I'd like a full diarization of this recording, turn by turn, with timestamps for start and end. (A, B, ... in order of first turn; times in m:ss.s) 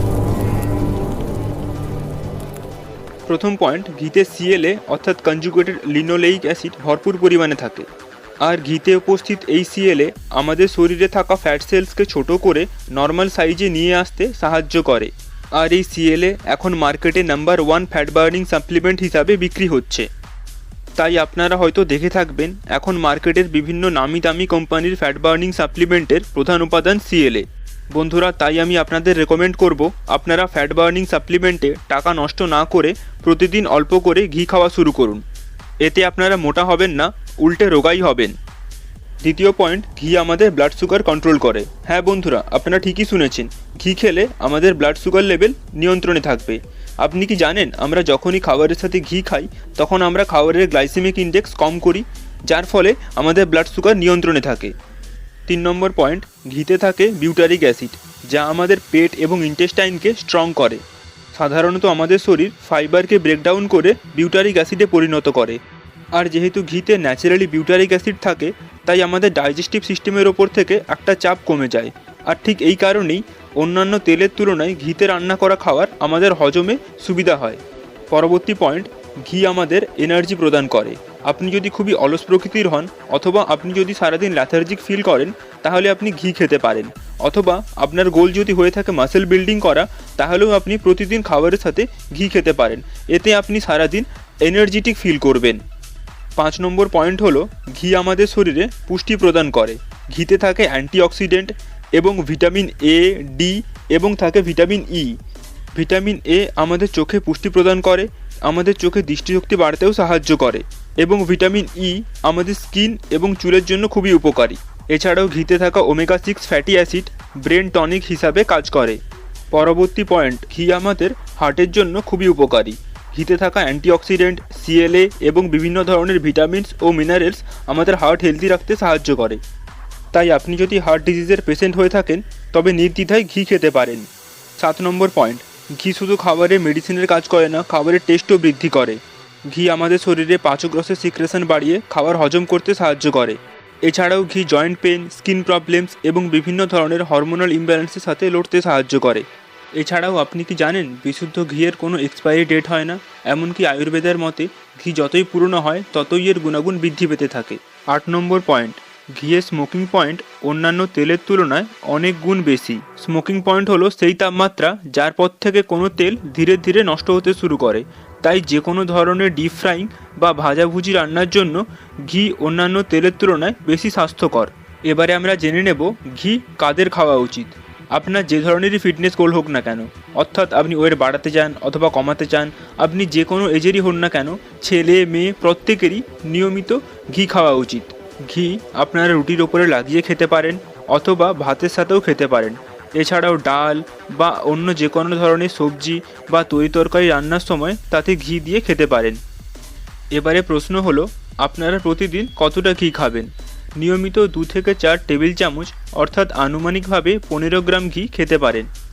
0:03.3-0:07.9 A
0:08.4-0:20.1 A
0:21.0-0:35.2 A
0:35.8-0:38.4 A
0:39.2-0:54.7 A
0:55.5-1:00.8 A
1:01.3-1:05.6 A
1:06.1-1:35.6 A
1:36.4-1:45.2 A
1:45.7-1:59.0 A
1:59.5-2:09.4 A
2:10.1-3:19.2 A
3:20.1-3:28.7 A